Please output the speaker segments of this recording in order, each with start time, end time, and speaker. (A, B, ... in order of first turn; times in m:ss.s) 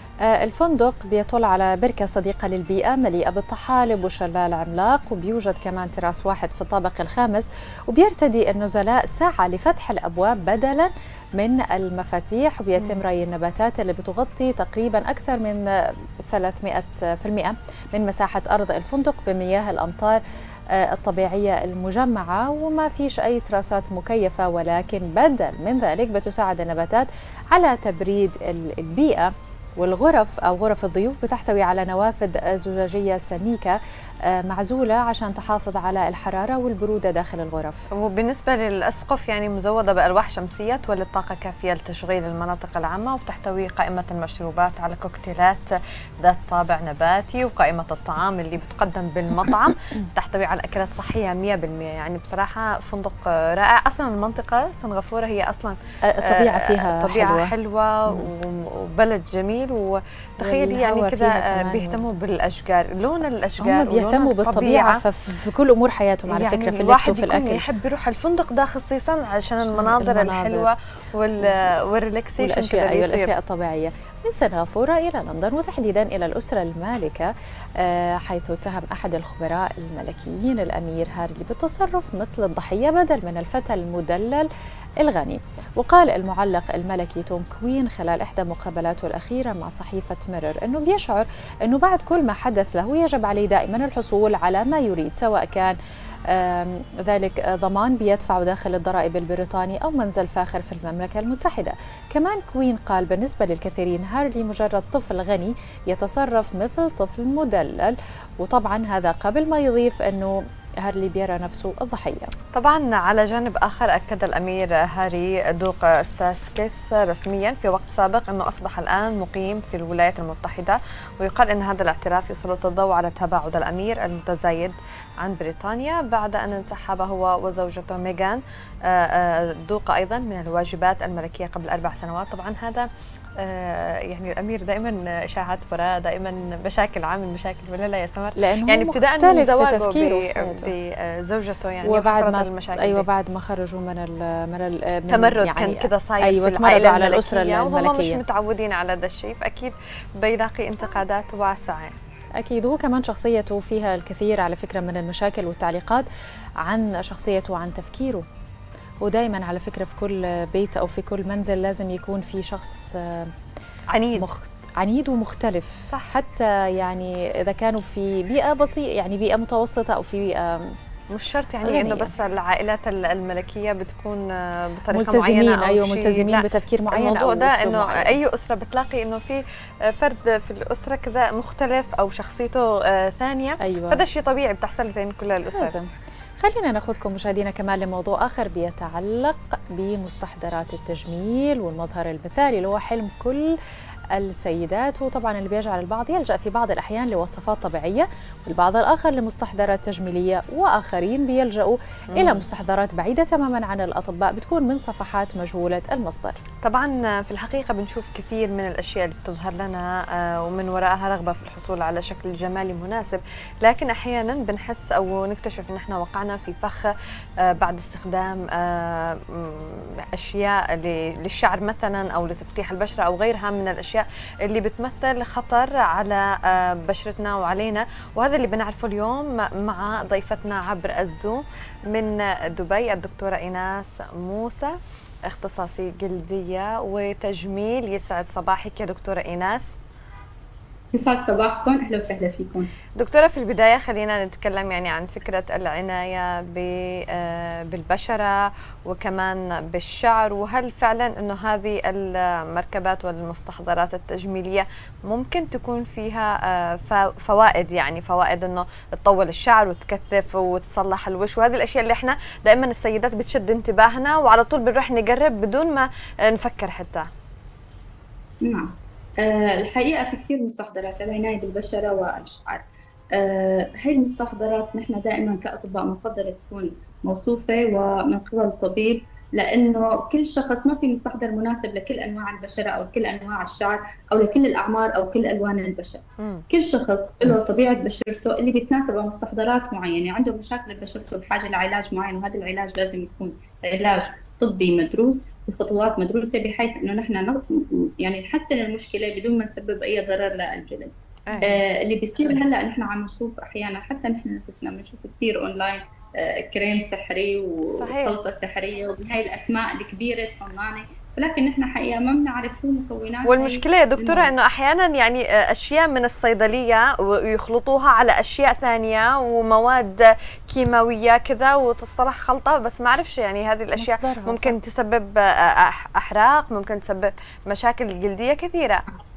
0:00.2-0:15.6 A
0:16.2-0:20.2 A
0:20.7-0:37.8 A
0:38.0-0:45.6 B
0:46.2-1:05.0 B
0:56.1-0:57.5 A
1:00.4-1:02.0 A
1:03.6-1:07.6 A
1:06.3-1:13.3 B
1:09.6-1:10.7 A
1:11.4-1:11.7 A
1:12.4-1:24.5 A
1:25.0-1:35.8 A
1:36.3-1:52.3 A
1:52.5-2:23.0 B
2:18.4-2:20.7 A
2:21.8-2:28.2 A
2:25.1-2:32.0 B
2:32.4-2:36.0 A
2:36.6-2:38.2 A
2:39.0-2:43.3 A
2:43.9-2:44.2 B
2:44.2-2:50.7 A
2:51.1-3:05.8 B
2:51.6-2:52.1 A
2:54.9-2:58.2 A
3:03.6-3:04.0 A
3:05.5-3:05.9 A
3:06.4-3:13.5 A
3:14.1-3:26.4 A
3:22.1-3:22.4 B
3:26.6-3:36.9 B
3:37.4-3:59.7 B
4:00.9-4:02.7 C
4:03.0-4:27.1 B
4:28.4-5:14.3 C
4:46.2-4:46.4 B
5:01.3-5:01.6 B
5:07.8-5:08.2 B
5:13.2-5:28.8 B
5:23.8-5:24.6 A